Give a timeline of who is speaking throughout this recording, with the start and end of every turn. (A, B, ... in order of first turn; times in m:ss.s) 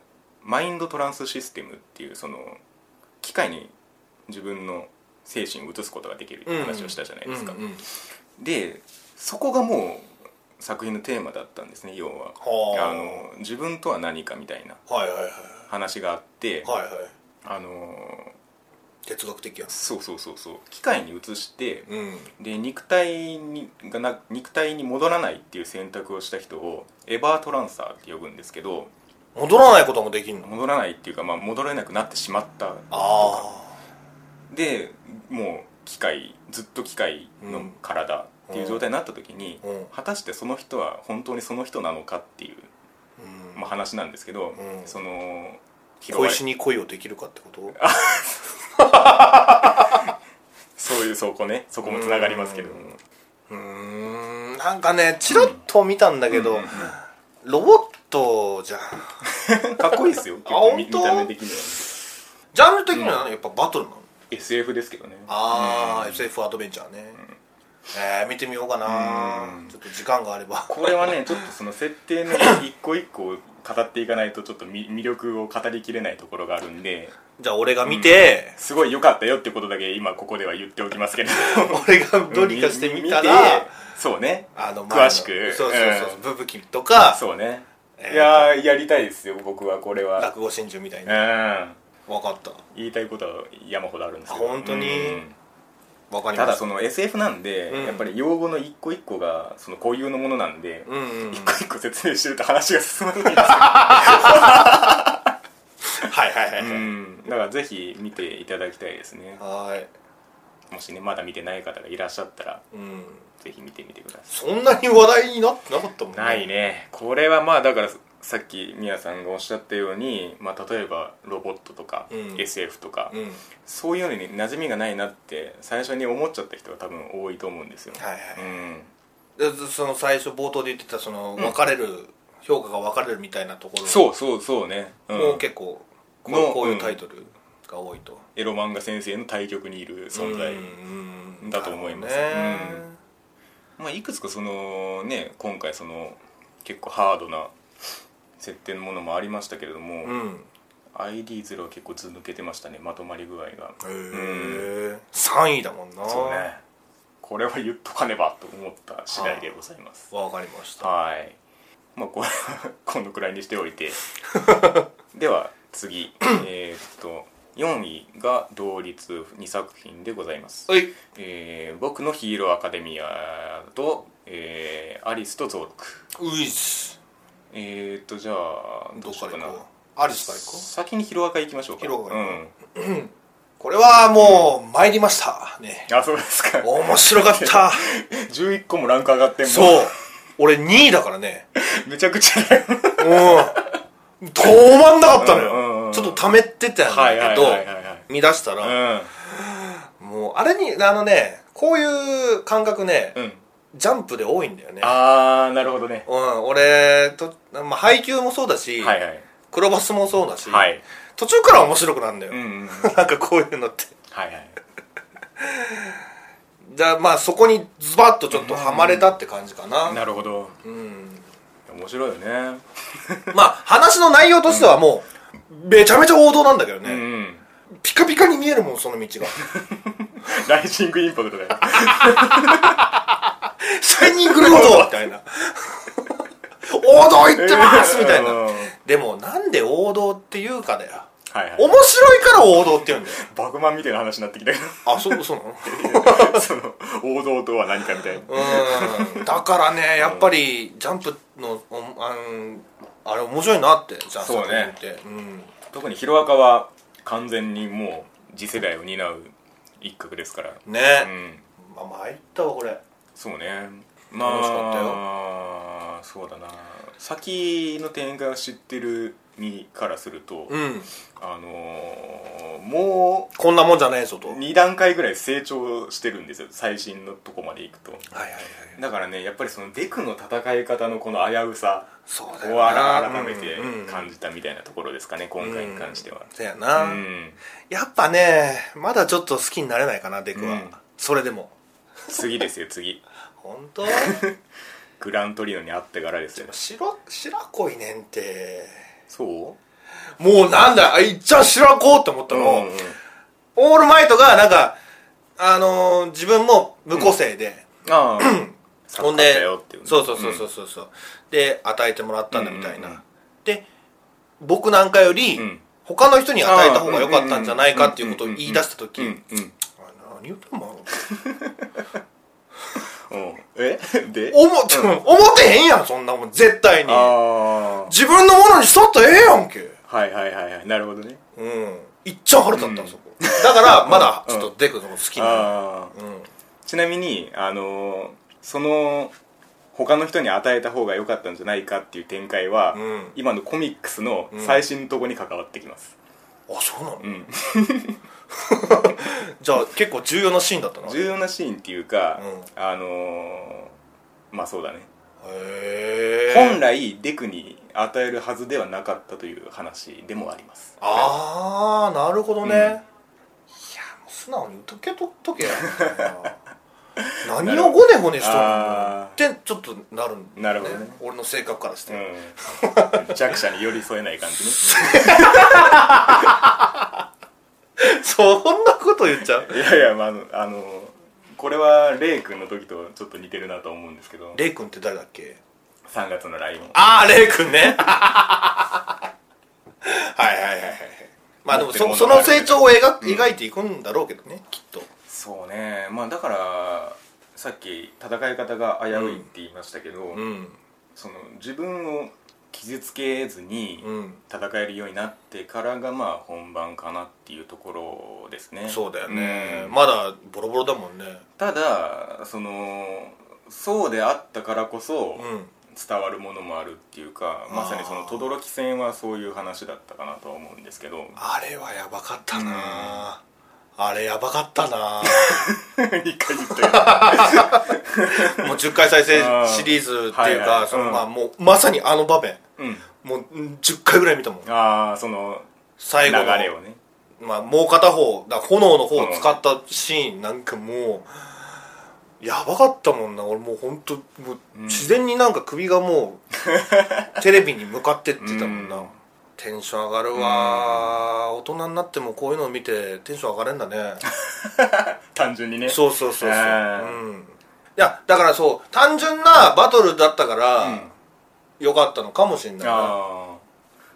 0:00.4-0:02.6 A
0:03.2-0:03.7 A
0:04.3-0:07.6 A
0:06.4-0:07.8 B
0:08.4-0:14.8 A
0:12.4-0:13.2 B
0:14.9-0:15.6 B
0:15.7-0:16.7 A
0:16.6-0:17.1 B
0:17.4-0:18.4 A
0:19.0-0:19.7 B
0:19.7-0:28.9 A
0:21.9-0:22.3 B
0:29.4-0:30.5 B
0:30.4-0:33.5 A
0:32.9-0:33.7 B
0:34.5-0:42.7 A
0:37.4-0:37.7 B
0:38.5-0:38.8 B
0:39.6-0:39.9 B
0:43.2-0:43.6 B
0:43.5-0:46.4 A
0:44.6-0:44.9 B
0:46.1-0:47.8 B
0:47.8-0:48.5 A
0:48.8-0:50.1 B
0:49.7-0:50.0 A
0:50.8-0:53.0 A
0:51.8-0:52.9 B
0:53.5-0:59.2 B
0:55.3-0:55.6 A
0:56.3-0:56.9 A
0:59.2-1:01.9 A
1:00.4-1:01.3 B
1:02.5-1:04.1 B
1:04.3-1:06.3 A
1:05.3-1:07.2 B
1:07.9-1:11.4 B
1:08.8-1:09.7 A
1:10.7-1:17.1 A
1:12.3-1:12.6 B
1:17.4-1:18.6 B
1:17.8-1:26.2 A
1:21.4-1:23.7 B
1:24.6-1:27.2 B
1:27.1-1:30.3 A
1:28.0-1:28.5 B
1:30.2-1:31.2 B
1:31.1-1:31.8 A
1:32.1-1:32.6 B
1:32.7-1:35.4 A
1:34.3-1:35.2 B
1:36.1-1:36.6 B
1:36.4-1:45.3 A
1:37.7-1:38.1 B
1:40.9-1:41.6 B
1:43.3-1:44.7 B
1:45.9-1:46.9 B
1:46.6-1:49.4 A
1:49.4-1:49.9 B
1:50.7-1:52.6 A
1:52.7-1:53.2 B
1:53.4-1:54.3 A
1:54.3-1:56.4 B
1:56.1-2:08.9 A
2:02.1-2:02.4 B
2:03.1-2:03.4 B
2:07.9-2:08.5 B
2:09.4-2:14.0 B
2:13.8-2:15.4 A
2:15.1-2:18.2 B
2:16.3-2:17.0 A
2:18.4-2:20.8 A
2:20.1-2:23.0 B
2:21.4-2:22.8 A
2:23.8-2:27.5 A
2:28.4-2:30.2 A
2:30.0-2:30.5 B
2:30.9-2:34.7 A
2:33.8-2:36.5 B
2:36.1-2:36.6 A
2:37.2-2:40.1 A
2:39.1-2:39.5 B
2:40.1-2:40.9 B
2:40.8-2:41.4 A
2:42.0-2:44.0 A
2:44.3-2:44.8 B
2:45.1-2:56.0 A
2:50.7-2:50.9 B
2:56.2-2:57.0 B
2:57.5-2:59.6 A
2:59.0-3:00.7 B
3:00.2-3:02.5 A
3:01.8-3:05.9 B
3:04.2-3:04.5 A
3:05.9-3:10.0 A
3:06.6-3:07.9 B
3:09.4-3:11.4 B
3:11.6-3:13.7 A
3:13.0-3:13.6 B
3:14.2-3:23.2 B
3:15.2-3:16.2 A
3:16.9-3:18.1 A
3:18.6-3:19.1 A
3:23.1-3:23.4 A
3:23.7-3:24.9 B
3:24.8-3:26.1 A
3:26.1-3:29.0 B
3:28.8-3:29.3 A
3:29.5-3:33.9 B
3:30.4-3:30.8 A
3:32.3-3:32.9 A
3:34.1-3:34.6 A
3:35.4-3:36.0 B
3:36.6-3:40.0 B
3:38.3-3:39.1 A
3:39.8-3:40.6 A
3:40.6-3:41.3 B
3:41.7-3:43.4 A
3:43.3-3:47.1 B
3:44.5-3:44.8 A
3:46.8-3:47.4 A
3:47.7-3:49.4 B
3:49.4-3:52.8 A
3:51.9-4:03.2 B
3:54.1-3:54.9 A
3:57.3-3:58.7 A
4:01.3-4:01.8 A
4:02.7-4:09.3 A
4:04.8-4:06.4 B
4:08.3-4:15.5 B
4:10.0-4:10.3 A
4:14.2-4:14.7 A
4:15.7-4:21.4 A
4:20.6-4:22.8 B
4:23.2-4:30.6 A
4:24.2-4:25.0 B
4:30.5-4:30.9 B
4:31.2-4:33.3 A
4:33.3-4:34.4 B
4:34.3-4:38.1 A
4:38.1-4:38.8 B
4:38.7-4:47.4 A
4:42.1-4:44.1 B
4:45.4-4:47.0 B
4:47.7-4:51.6 B
4:50.3-4:50.8 A
4:52.1-4:53.0 A
4:53.4-4:54.2 B
4:53.9-4:54.4 A
4:55.0-4:56.6 A
4:56.4-4:58.8 B
4:59.1-4:59.6 A
5:00.2-5:02.7 B
5:02.3-5:03.0 A
5:03.6-5:04.8 B
5:05.4-5:07.7 B
5:07.8-5:10.4 A
5:08.2-5:13.7 B
5:12.3-5:13.0 A
5:14.4-5:19.2 B
5:15.3-5:15.6 A
5:16.4-5:19.6 A
5:19.7-5:20.9 B
5:21.0-5:21.8 A
5:23.1-5:25.0 A
5:24.3-5:27.2 B
5:26.9-5:27.9 A
5:27.9-5:29.8 B
5:29.9-5:31.2 A
5:31.4-5:36.3 B
5:32.5-5:34.5 A
5:35.1-5:36.0 A
5:36.7-5:39.1 A
5:39.7-5:45.9 A
5:42.7-5:43.1 B
5:44.3-5:44.6 B
5:46.5-5:47.2 B
5:47.0-5:48.0 A
5:48.3-5:51.0 B
5:50.8-5:53.7 A
5:52.2-5:52.5 B
5:54.3-5:54.9 A
5:55.2-5:56.6 B
5:56.3-6:01.2 A
6:00.8-6:02.8 B
6:02.4-6:02.8 A
6:03.5-6:06.4 B
6:05.4-6:06.1 A
6:07.0-6:09.2 A
6:07.2-6:13.3 B
6:10.4-6:11.0 A
6:11.9-6:16.3 A
6:14.6-6:17.0 B
6:17.8-6:19.6 B
6:19.4-6:24.4 A
6:24.3-6:25.4 B
6:25.9-6:26.8 A
6:26.7-6:29.0 B
6:29.8-6:34.9 B
6:31.5-6:33.3 A
6:35.1-6:40.2 A
6:38.9-6:39.2 B
6:40.1-6:40.6 B
6:41.0-6:49.8 A
6:43.8-6:44.2 B
6:48.7-6:51.2 B
6:51.4-7:01.2 A
6:55.2-6:55.5 B
6:57.5-6:58.3 B
7:01.2-7:03.2 B
7:02.3-7:03.0 A
7:03.8-7:05.5 B
7:05.0-7:11.0 A
7:06.4-7:12.4 B
7:12.6-7:12.9 A
7:13.0-7:14.5 B
7:14.4-7:15.5 A
7:15.8-7:16.5 B
7:16.0-7:16.8 A
7:17.2-7:21.5 B
7:18.9-7:19.4 A
7:22.2-7:26.2 B
7:24.6-7:25.0 A
7:26.4-7:27.1 A
7:27.2-7:34.0 B
7:28.2-7:29.0 A
7:30.1-7:31.0 A
7:34.0-7:37.0 A
7:35.7-7:40.9 B
7:40.6-7:40.9 A
7:41.6-7:43.0 B
7:42.6-7:43.4 A